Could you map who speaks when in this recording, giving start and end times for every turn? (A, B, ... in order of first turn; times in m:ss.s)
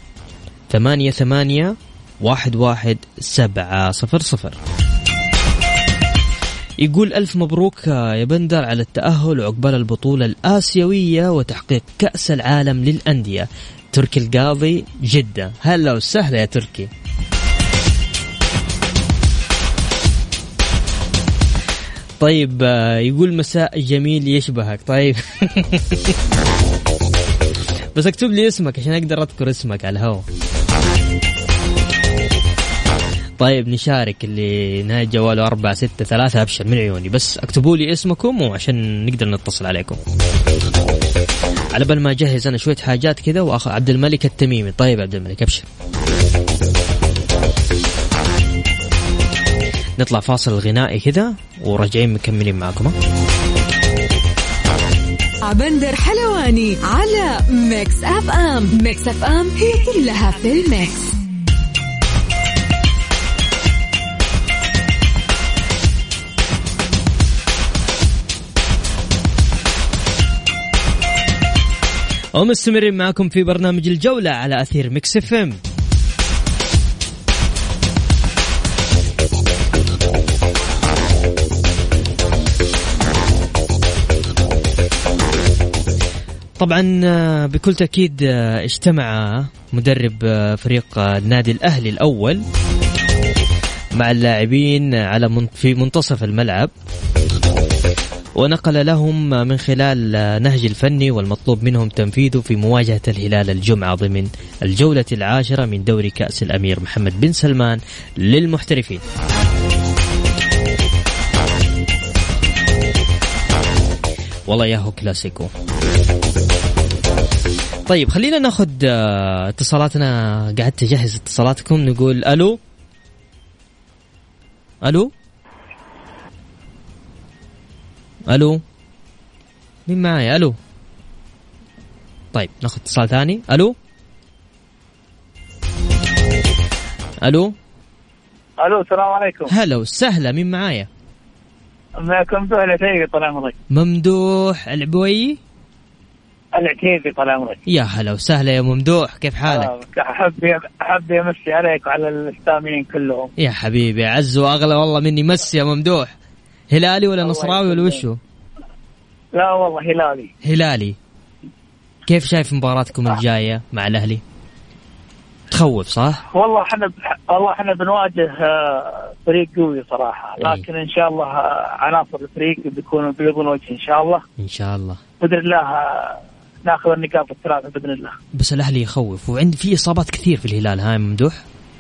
0:00.7-0:04.6 A
0:06.8-0:16.9 A
0:22.2-0:26.2 A
0:27.9-0:30.2 A
0:33.4-0:40.0 A
0:41.7-0:45.7 A
0:50.0-0:52.9 A
0:55.4-1:01.2 B
1:12.3-1:15.6 A
1:26.6-1:32.4 A
1:34.0-1:36.7 A
1:38.4-1:49.0 A
1:54.5-1:55.5 A
1:57.9-2:02.6 A
2:04.8-2:05.1 A
2:08.3-2:08.6 A
2:09.9-2:10.6 A
2:12.3-2:13.7 A
2:17.2-2:17.5 A
2:18.6-2:19.5 C
2:19.5-2:20.9 A
2:22.0-2:23.5 C
2:23.7-2:25.4 A
2:26.5-2:27.6 C
2:27.7-2:29.7 A
2:29.5-2:33.3 C
2:33.4-2:36.1 A
2:36.7-2:38.2 A
2:37.2-2:38.0 C
2:39.3-2:40.3 C
2:40.4-2:41.0 A
2:42.1-2:44.2 A
2:45.5-2:46.2 A
2:46.3-2:54.2 C
2:50.4-2:50.7 A
2:54.4-2:55.0 A
2:55.2-2:58.1 C
2:58.3-3:01.4 A